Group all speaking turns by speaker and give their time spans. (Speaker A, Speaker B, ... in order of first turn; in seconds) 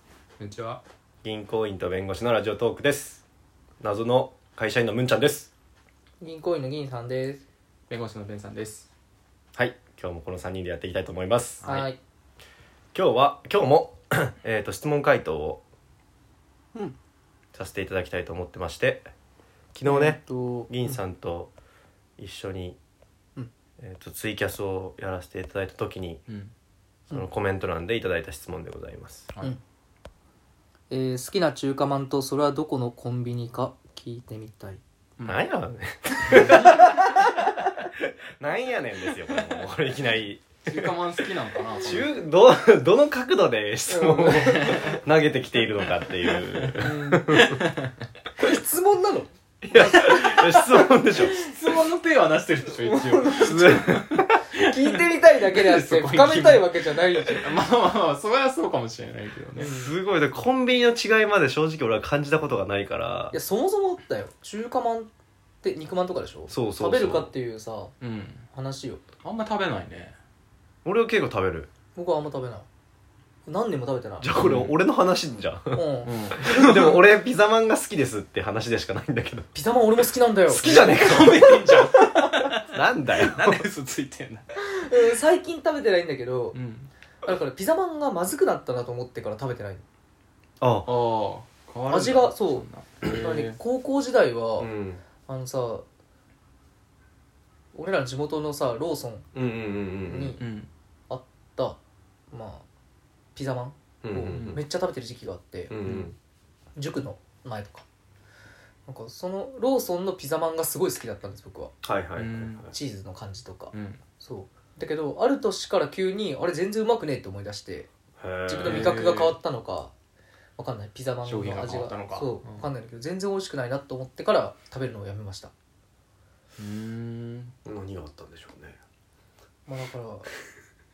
Speaker A: 0.4-0.8, 7.9-8.9, 26.3-26.5, 39.2-39.7, 40.6-42.2, 44.5-45.0, 46.2-47.9, 51.3-59.7, 68.0-68.5, 69.2-70.2, 74.4-74.8, 76.0-76.7, 80.9-84.5, 86.5-86.9, 90.9-93.6, 100.4-100.7, 105.8-106.1, 112.2-112.7, 113.7-114.0, 118.6-119.4, 121.2-122.7, 126.6-127.5
Speaker B: 1.2-3.2, 3.8-5.5, 9.6-11.7, 12.9-15.6, 17.5-19.1, 19.7-21.5, 22.2-22.8, 23.8-26.2, 27.1-29.3, 35.3-37.2, 38.4-40.9, 41.8-47.6, 49.6-51.3, 53.4-54.4, 59.6-63.4, 66.5-67.3, 70.8-71.7, 74.2-75.8, 76.4-79.5, 80.5-82.0, 82.7-83.7, 90.6-90.9, 94.6-95.0, 99.3-100.4, 104.0-104.6, 105.7-106.2, 111.8-112.7, 118.2-118.9, 127.7-128.8
Speaker C: 6.2-7.4, 11.6-12.0, 19.9-20.7, 30.9-34.8, 43.9-45.0, 46.8-47.4, 48.4-51.7, 52.7-53.9, 54.5-57.5, 59.6-59.9, 63.3-65.1, 65.6-67.9, 68.5-69.0, 72.0-72.7, 73.5-74.3, 75.7-77.0, 79.5-81.5, 84.6-86.6, 87.2-89.8, 91.9-94.7, 95.3-95.9, 97.8-99.3, 100.0-100.4, 101.1-101.8, 102.3-102.7, 103.3-105.8, 106.8-107.9, 108.9-111.7, 112.7-117.9, 118.5-119.9, 120.6-125.5, 129.7-130.3